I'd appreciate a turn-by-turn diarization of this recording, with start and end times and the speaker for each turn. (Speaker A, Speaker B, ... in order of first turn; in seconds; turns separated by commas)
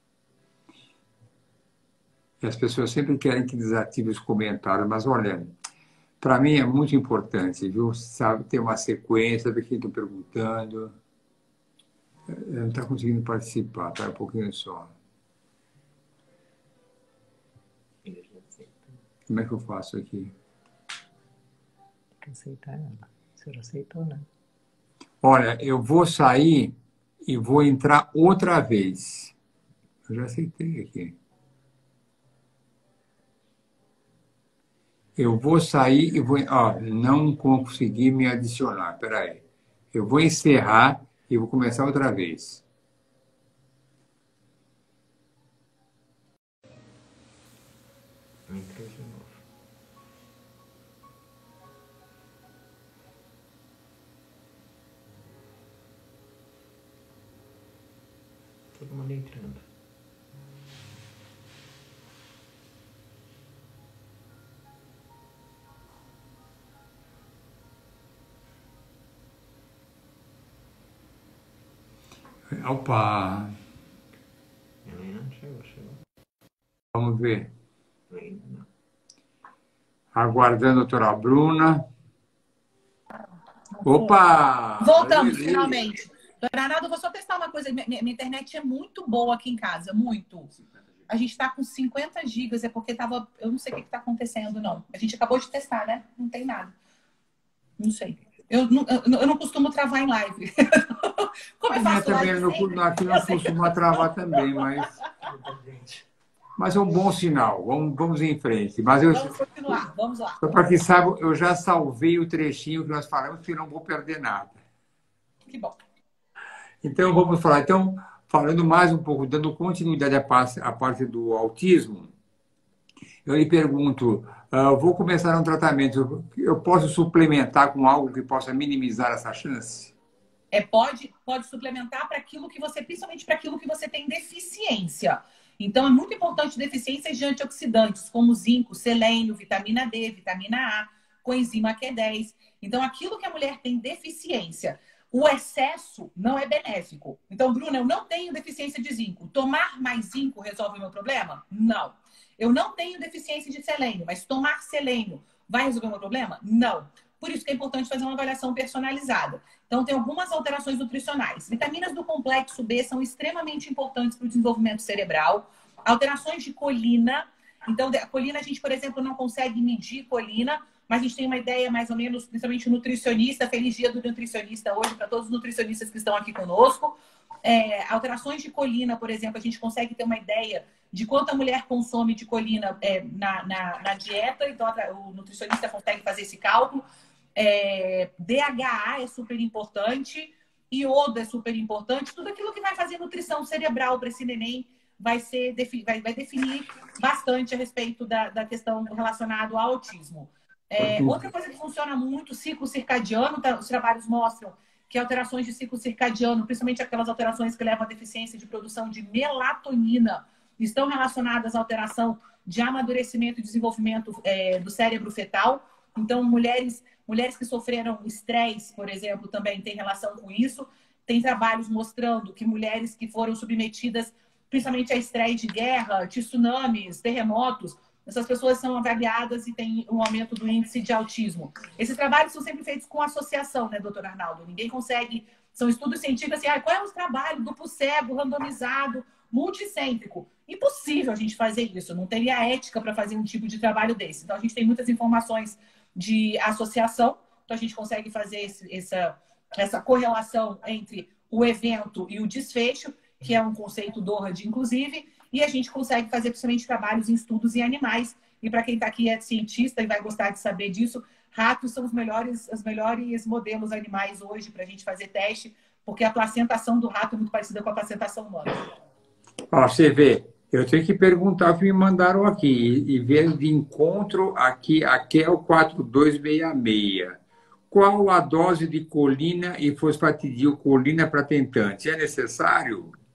Speaker A: 2.4-5.5, Speaker A: 6.2-10.9, Speaker A: 12.3-14.9, Speaker B: 18.0-18.9, Speaker A: 19.3-20.3, Speaker B: 22.2-24.3, Speaker A: 25.2-26.7, Speaker A: 27.2-29.3, Speaker A: 30.1-31.1, Speaker A: 35.1-42.6, Speaker B: 48.5-49.4, Speaker B: 58.7-59.6, Speaker A: 72.5-73.5, Speaker B: 74.8-76.0, Speaker A: 76.9-77.5, Speaker B: 78.1-78.7, Speaker A: 80.1-81.8, Speaker C: 83.8-84.1, Speaker A: 83.8-85.8, Speaker C: 84.8-90.5, Speaker C: 91.1-96.7, Speaker C: 97.8-103.7, Speaker A: 101.7-105.0, Speaker B: 105.2-106.0, Speaker A: 106.6-109.3, Speaker C: 109.1-110.5, Speaker A: 110.4-114.6, Speaker C: 115.5-115.8, Speaker A: 116.8-122.1, Speaker A: 123.2-129.9, Speaker C: 130.5-186.8, Speaker C: 187.3-268.6, Speaker A: 200.8-201.2, Speaker A: 269.5-277.2, Speaker A: 277.7-282.9